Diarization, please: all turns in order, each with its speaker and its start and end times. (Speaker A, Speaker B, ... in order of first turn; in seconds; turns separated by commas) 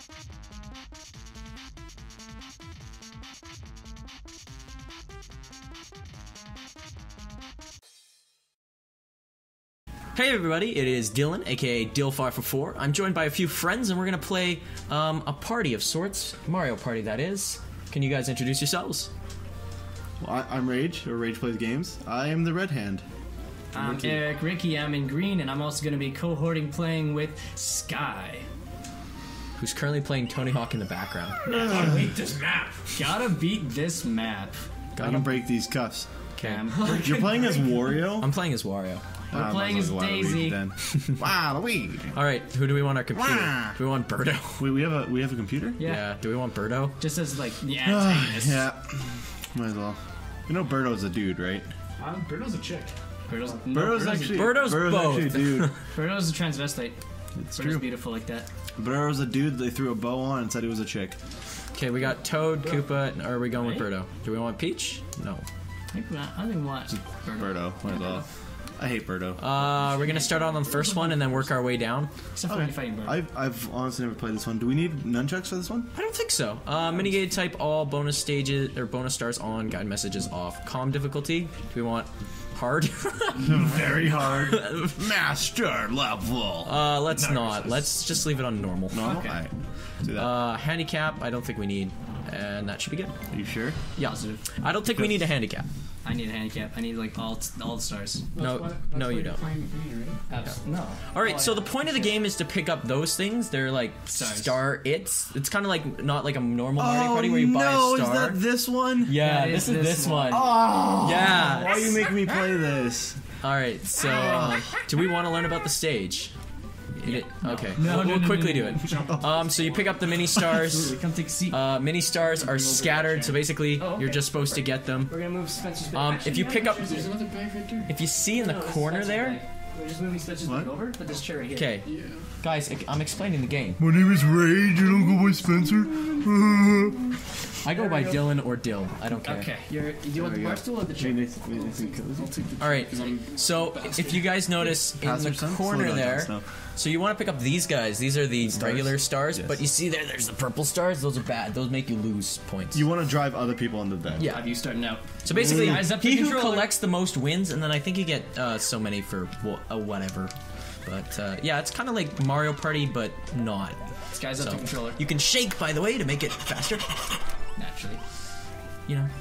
Speaker A: 10.1-19.1, Speaker B: 20.2-23.0, Speaker C: 23.7-28.5, Speaker A: 23.8-24.2, Speaker A: 29.6-31.5, Speaker C: 31.4-34.6, Speaker B: 31.5-32.1, Speaker A: 34.9-35.4, Speaker B: 35.0-36.1, Speaker A: 36.4-36.6, Speaker C: 36.4-37.6, Speaker B: 36.7-38.3, Speaker A: 38.2-39.0, Speaker C: 39.3-40.6, Speaker B: 39.3-42.2, Speaker A: 42.1-44.6, Speaker B: 43.1-43.8, Speaker B: 44.6-45.8, Speaker C: 45.8-46.1, Speaker A: 45.8-47.0, Speaker C: 47.0-48.7, Speaker B: 47.8-51.7, Speaker D: 52.0-52.9, Speaker C: 53.3-54.8, Speaker B: 53.7-55.7, Speaker A: 54.3-55.7, Speaker C: 55.9-57.0, Speaker B: 57.4-57.9, Speaker C: 57.5-58.5, Speaker B: 58.8-61.2, Speaker A: 61.7-65.4, Speaker C: 63.5-63.9, Speaker C: 65.9-68.2, Speaker B: 67.3-69.4, Speaker A: 69.4-72.1, Speaker C: 69.6-71.5, Speaker C: 72.3-73.2, Speaker B: 72.5-75.9, Speaker A: 75.9-83.7, Speaker B: 83.4-87.9, Speaker A: 84.2-85.0, Speaker A: 86.6-89.1, Speaker B: 88.9-90.3, Speaker C: 89.0-89.4, Speaker A: 90.1-93.1, Speaker B: 93.3-93.8, Speaker A: 93.9-95.7, Speaker C: 94.0-94.4, Speaker B: 94.9-95.2, Speaker C: 96.0-98.3, Speaker D: 98.3-100.3, Speaker A: 98.4-99.4, Speaker C: 100.3-102.1, Speaker A: 101.1-108.4, Speaker C: 104.1-104.6, Speaker B: 106.8-109.2, Speaker A: 109.0-112.0, Speaker C: 109.2-112.6, Speaker B: 110.3-113.2, Speaker A: 113.4-116.3, Speaker C: 114.0-114.8, Speaker B: 114.2-114.6, Speaker C: 116.9-121.6, Speaker A: 117.0-120.9, Speaker D: 118.8-119.4, Speaker B: 119.1-119.4, Speaker B: 120.3-120.6, Speaker A: 121.5-125.1, Speaker C: 122.2-127.2, Speaker A: 125.9-127.0, Speaker D: 126.8-127.9, Speaker A: 127.9-129.4, Speaker C: 128.3-131.7, Speaker B: 130.4-130.7, Speaker A: 131.5-133.8, Speaker D: 131.8-132.2, Speaker B: 133.8-137.1, Speaker A: 137.6-139.5, Speaker C: 137.7-138.3, Speaker C: 139.2-141.9, Speaker B: 140.2-142.3, Speaker D: 142.1-144.3, Speaker A: 142.6-152.8, Speaker B: 144.8-146.4, Speaker B: 148.4-149.6, Speaker B: 152.7-154.3, Speaker A: 154.2-154.4, Speaker C: 154.2-156.7, Speaker A: 155.2-160.3, Speaker B: 155.3-155.9, Speaker A: 160.8-163.8, Speaker C: 164.1-165.0, Speaker A: 164.3-166.9, Speaker C: 167.6-168.0